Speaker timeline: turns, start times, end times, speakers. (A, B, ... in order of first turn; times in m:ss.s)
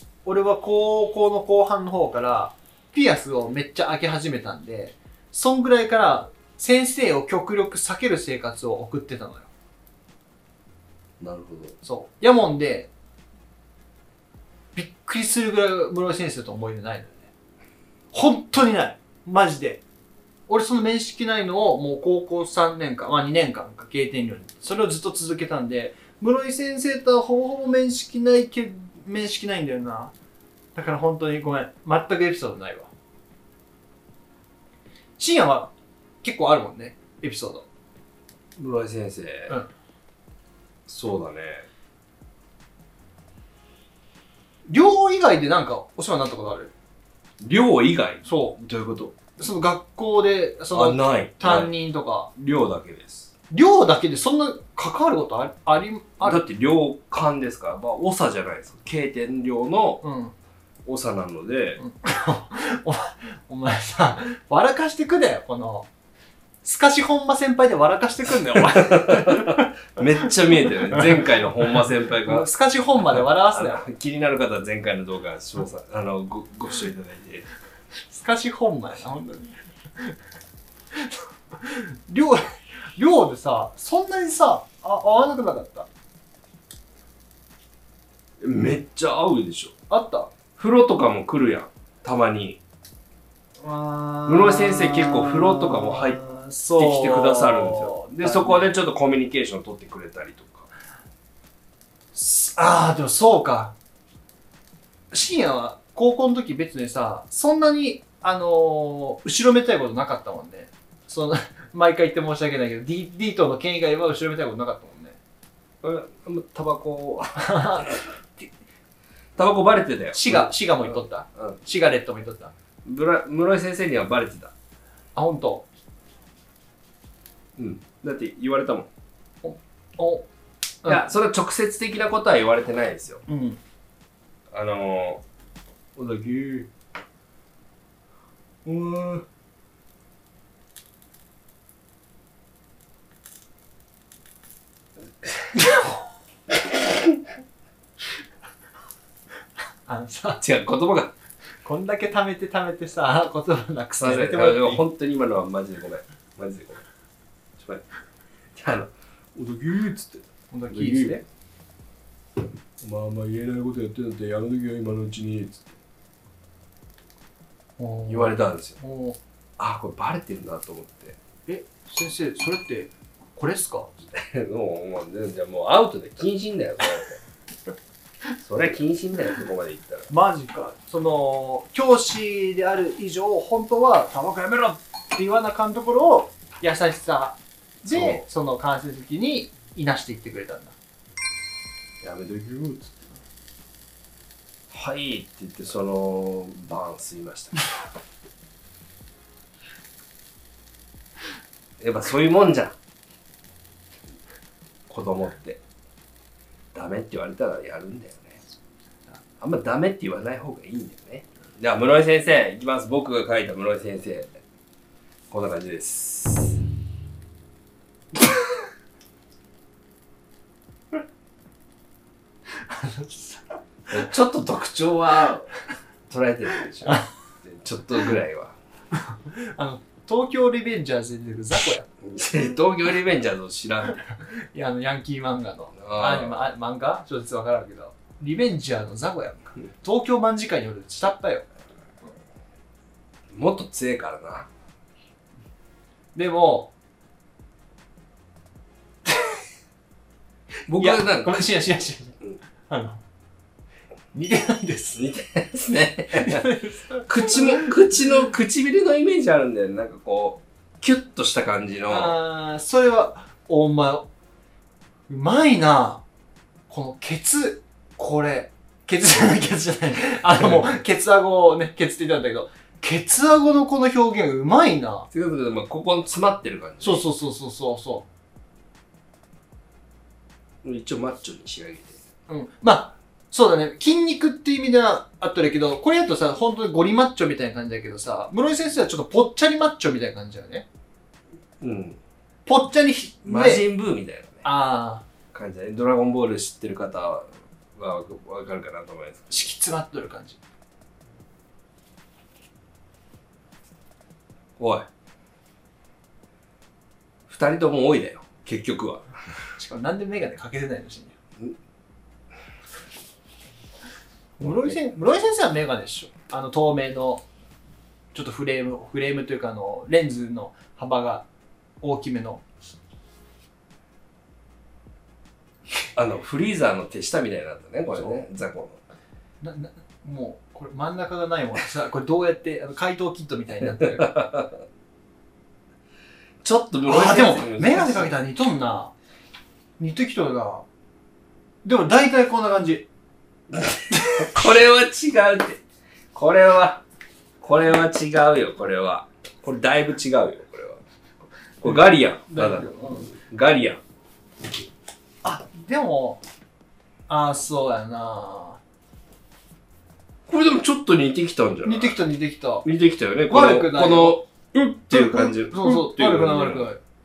0:00.2-0:09.5 A
0:11.2-0:11.8 B
0:11.8-0:12.9 A
0:14.8-0:17.3 A
0:18.1-0:19.8 A
0:20.5-0:30.1 A
0:30.8-0:32.9 A
0:35.2-0:37.7 A
0:38.6-0:39.6 B
0:40.9-0:41.7 B
0:44.7-0:46.7 A
0:47.4-0:49.2 B
0:48.3-0:48.6 A
0:49.4-0:52.3 A
0:50.7-0:51.7 B
0:52.4-0:53.3 B
0:53.5-0:56.4 A
0:56.2-1:00.0 B
1:00.0-1:00.4 A
1:00.8-1:01.8 B
1:01.8-1:05.9 A
1:06.6-1:09.7 A
1:08.5-1:12.5 B
1:10.6-1:13.9 A
1:13.0-1:17.5 B
1:18.1-1:20.2 A
1:20.9-1:22.4 A
1:23.0-1:25.9 A
1:28.4-1:29.8 B
1:29.9-1:30.3 A
1:30.6-1:32.6 B
1:33.6-1:38.7 A
1:34.3-1:36.2 B
1:36.8-1:40.7 B
1:42.1-1:43.8 A
1:45.1-1:55.2 A
1:55.8-1:57.9 B
1:57.4-1:58.5 A
1:59.4-2:01.6 B
2:00.1-2:02.5 A
2:02.8-2:04.5 B
2:05.2-2:05.7 A
2:07.6-2:08.9 B
2:09.4-2:10.3 A
2:10.9-2:13.2 B
2:13.3-2:13.6 A
2:14.5-2:15.2 B
2:16.0-2:16.7 B
2:18.6-2:19.3 B
2:25.6-2:25.9 A
2:29.9-2:30.4 A
2:30.4-2:31.1 B
2:31.6-2:34.8 A
2:34.0-2:36.8 B
2:37.6-2:37.8 B
2:38.5-2:41.2 B
2:40.5-2:41.2 A
2:42.8-2:45.8 B
2:47.8-2:49.2 A
2:48.1-2:48.8 B
2:49.6-2:51.2 B
2:51.5-2:53.9 A
2:54.1-2:57.2 B
2:58.4-3:00.1 B
3:00.1-3:10.8 A
3:07.9-3:08.2 B
3:12.0-3:13.1 B
3:14.7-3:17.7 B
3:21.8-3:22.8 B
3:24.9-3:25.6 B
3:26.7-3:28.4 B
3:29.4-3:34.3 B
3:35.3-3:36.6 B
3:42.6-3:43.5 A
3:43.9-3:45.5 B
3:46.1-3:48.6 B
3:48.9-3:51.9 A
3:52.0-3:54.0 B
3:54.0-4:01.5 A
3:55.8-3:56.4 B
4:03.3-4:04.5 B
4:06.2-4:06.7 A
4:09.1-4:09.4 A
4:10.7-4:11.5 B
4:10.7-4:13.0 A
4:14.1-4:15.0 A
4:15.0-4:16.5 B
4:16.1-4:17.7 A
4:17.0-4:22.2 B
4:21.9-4:24.1 A
4:25.1-4:26.0 A
4:26.7-4:35.1 A
4:35.1-4:37.0 B
4:36.8-4:38.1 A
4:40.6-4:42.0 B
4:42.3-4:50.6 A
4:51.6-4:52.0 B
4:52.5-4:53.6 A
4:53.2-4:54.4 B
4:54.4-4:55.0 A
4:55.3-4:59.5 B
4:59.3-5:00.4 A
5:04.6-5:04.9 B
5:07.3-5:09.1 B
5:09.6-5:11.2 A
5:14.4-5:17.2 A
5:14.4-5:14.8 B
5:18.1-5:21.3 A
5:21.8-5:22.4 A
5:26.0-5:28.8 B
5:29.4-5:34.2 A
5:34.0-5:34.5 B
5:36.4-5:38.1 B
5:36.9-5:38.9 A
5:39.8-5:40.6 A
5:41.6-5:42.9 A
5:43.5-5:45.6 B
5:46.1-5:46.8 B
5:47.4-5:50.8 B
5:51.6-5:53.8 B
5:51.6-5:53.1 A
5:55.2-5:56.2 A
5:57.1-5:58.6 A
6:00.3-6:02.0 B
6:01.6-6:02.6 A
6:02.6-6:06.7 B
6:03.3-6:06.8 A